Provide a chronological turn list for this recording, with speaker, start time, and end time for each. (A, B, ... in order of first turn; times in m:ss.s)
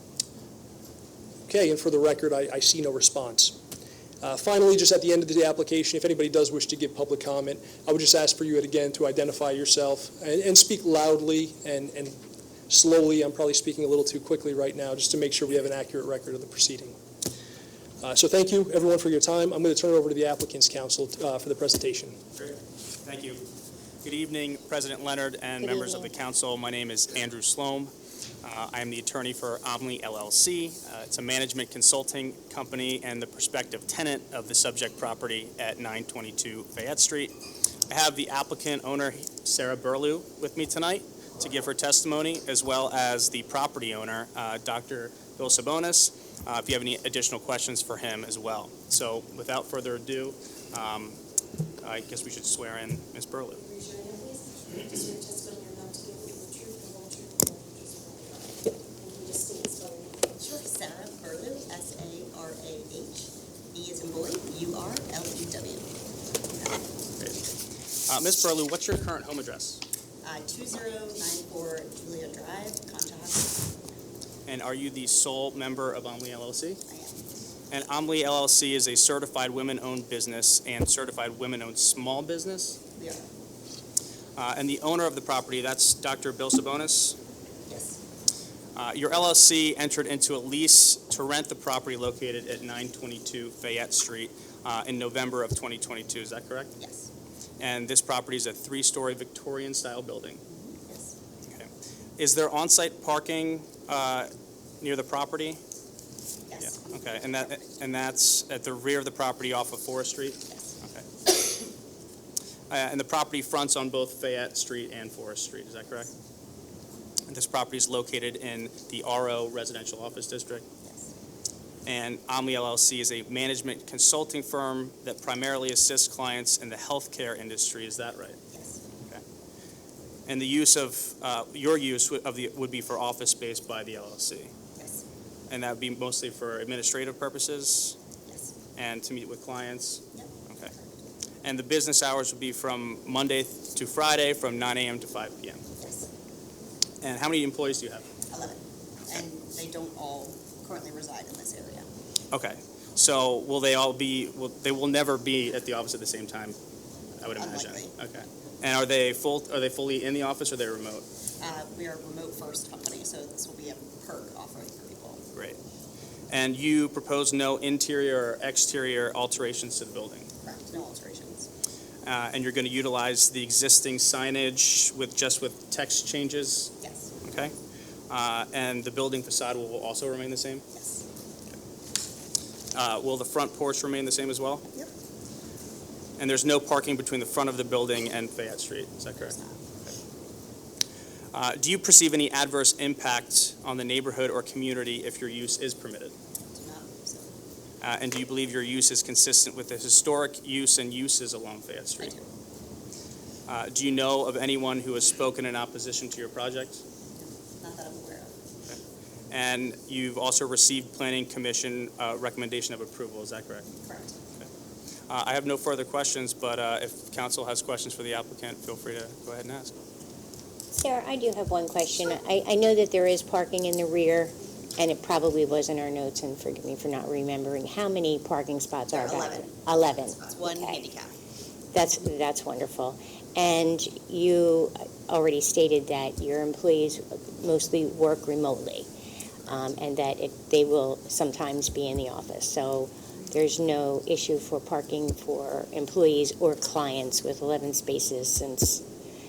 0:01.5-0:03.6 A
0:04.2-0:12.2 A
0:12.7-0:17.0 A
0:18.0-0:22.2 A
0:22.4-0:23.4 B
0:24.0-0:27.9 B
0:25.6-0:26.1 C
0:28.4-0:37.4 B
0:37.9-0:51.2 B
0:51.8-0:53.7 B
0:53.7-1:00.2 D
1:00.4-1:05.9 E
1:06.5-1:06.8 E
1:08.1-1:09.8 B
1:10.2-1:13.7 E
1:14.5-1:16.8 B
1:16.9-1:17.2 E
1:17.7-1:22.8 B
1:23.0-1:23.2 E
1:24.4-1:27.2 B
1:27.7-1:28.0 E
1:28.8-1:36.8 B
1:36.8-1:37.1 E
1:37.6-1:40.4 B
1:40.5-1:41.1 E
1:41.5-1:44.3 B
1:44.8-1:45.6 B
1:46.5-1:47.7 E
1:46.6-1:51.1 B
1:50.5-1:50.7 E
1:52.7-1:56.1 B
1:57.3-2:00.6 B
2:00.8-2:01.1 E
2:01.9-2:08.4 B
2:08.5-2:08.8 E
2:10.3-2:14.5 B
2:14.8-2:15.0 E
2:15.5-2:18.0 B
2:18.3-2:18.6 E
2:18.8-2:20.7 B
2:20.1-2:21.0 E
2:21.4-2:25.6 B
2:25.8-2:26.1 E
2:27.0-2:28.1 B
2:28.3-2:31.9 E
2:32.3-2:36.6 B
2:37.2-2:41.0 B
2:37.4-2:37.9 E
2:41.4-2:45.2 E
2:46.3-2:50.3 B
2:50.4-2:51.5 E
2:52.0-2:56.7 B
2:56.8-2:57.1 E
2:57.2-2:57.5 B
2:58.1-3:00.6 B
3:00.7-3:01.0 E
3:02.8-3:04.6 B
3:06.2-3:09.4 B
3:09.2-3:09.6 E
3:11.3-3:16.2 B
3:16.5-3:17.3 E
3:17.8-3:22.2 B
3:22.0-3:22.3 E
3:23.5-3:26.8 B
3:27.2-3:28.4 E
3:29.3-3:33.7 B
3:33.8-3:34.2 E
3:35.1-3:39.8 B
3:40.7-3:50.8 C
3:49.0-3:51.1 E
3:51.7-3:58.9 C
3:59.5-4:08.8 C